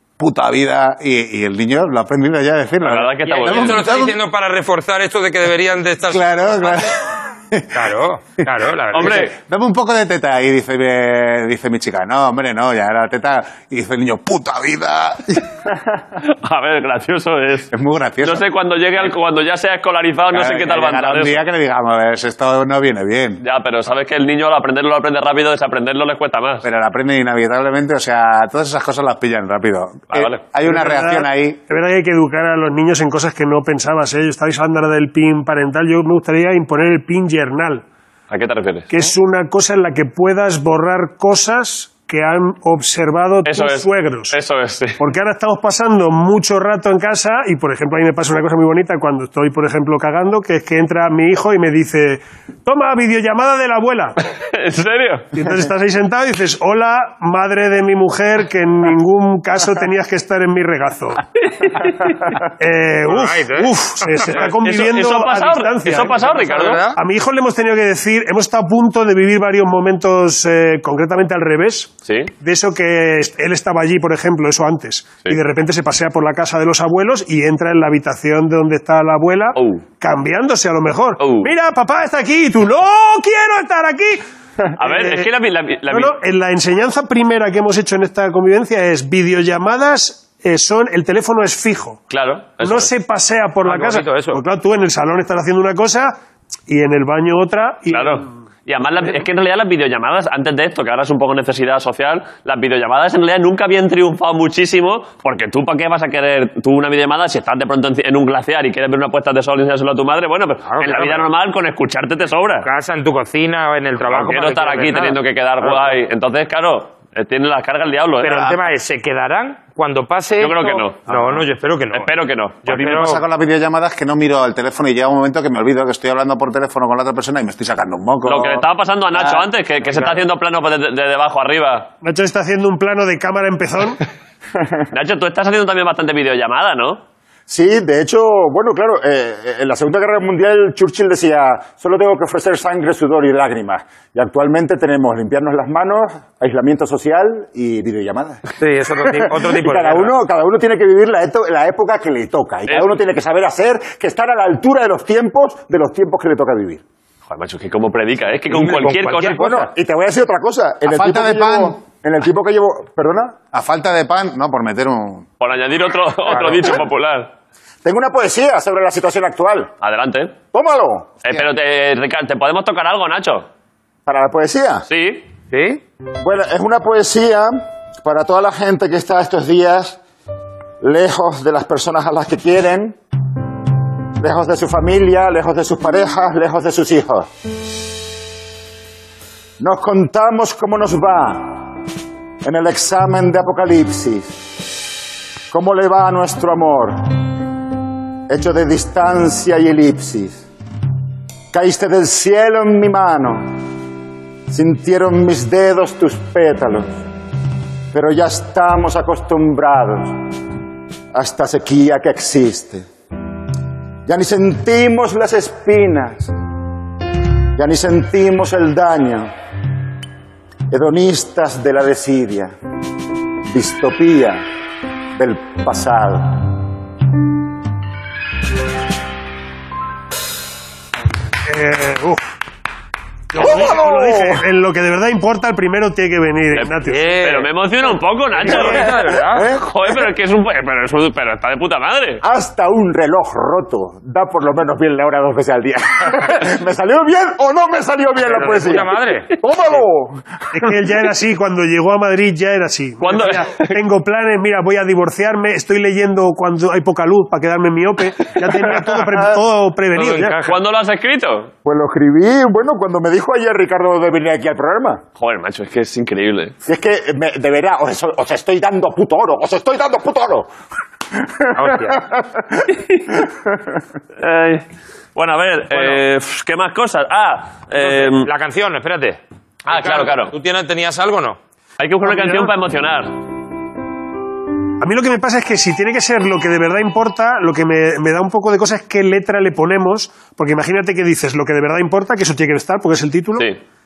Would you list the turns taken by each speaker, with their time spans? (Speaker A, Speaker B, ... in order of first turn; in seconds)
Speaker A: 0.2-4.2, 6.1-7.9, 9.0-15.4, 17.7-18.4, 20.3-23.4, 26.6-31.6, 122.7-129.5, 160.8-161.8, 163.5-165.2
Speaker B: 2.8-3.9, 8.9-9.3, 16.2-17.7, 18.2-21.4, 23.4-26.7, 30.1-30.4, 38.3-38.9, 43.4-45.0, 54.4-55.3, 61.6-62.1, 64.4-66.8, 72.0-72.3, 79.5-79.8, 81.2-81.5, 84.8-86.1, 92.1-92.9, 97.9-112.7, 114.1-118.6, 120.4-122.8, 128.2-131.9, 134.9-137.0, 157.3-159.4, 165.4-167.3, 169.8-170.3, 171.2-173.5, 174.9-175.2, 236.5-242.2, 253.0-253.8, 260.4-261.5, 265.2-266.6, 274.2-278.3, 279.7-280.3, 281.8-283.1
Speaker C: 3.2-6.9, 7.7-9.3, 63.0-64.5, 66.2-67.0, 93.6-94.4, 110.7-111.3, 112.6-115.2, 118.2-122.1, 122.6-123.2, 148.6-150.1, 158.5-159.7, 166.3-166.8, 175.5-175.8, 236.8-237.5, 238.4-239.5, 248.2-249.3, 259.9-260.6, 271.5-272.0, 275.7-276.0, 277.7-281.4
Speaker D: 30.6-37.8, 38.9-44.4, 45.0-54.2, 55.3-61.2, 62.6-66.4, 66.9-84.2, 84.8-85.3, 85.9-92.0, 92.6-98.4, 132.0-134.0, 231.4-232.2, 233.3-237.1, 250.5-260.5, 282.1-282.5, 284.8-293.5
Speaker E: 137.5-148.5, 149.0-156.8, 159.2-163.4, 167.8-169.7, 170.5-171.1, 174.1-174.8, 176.2-180.0, 180.8-182.9, 184.2-187.3, 189.6-191.7, 192.4-194.4, 195.5-197.1, 198.3-200.4, 201.5-203.6, 204.5-207.0, 207.9-210.2, 211.1-212.8, 214.1-216.3, 217.6-219.3, 220.7-222.5, 223.5-224.4, 225.2-226.4, 233.4-234.4, 238.5-240.1, 242.2-250.7, 261.6-265.0, 266.6-270.5, 271.2-273.7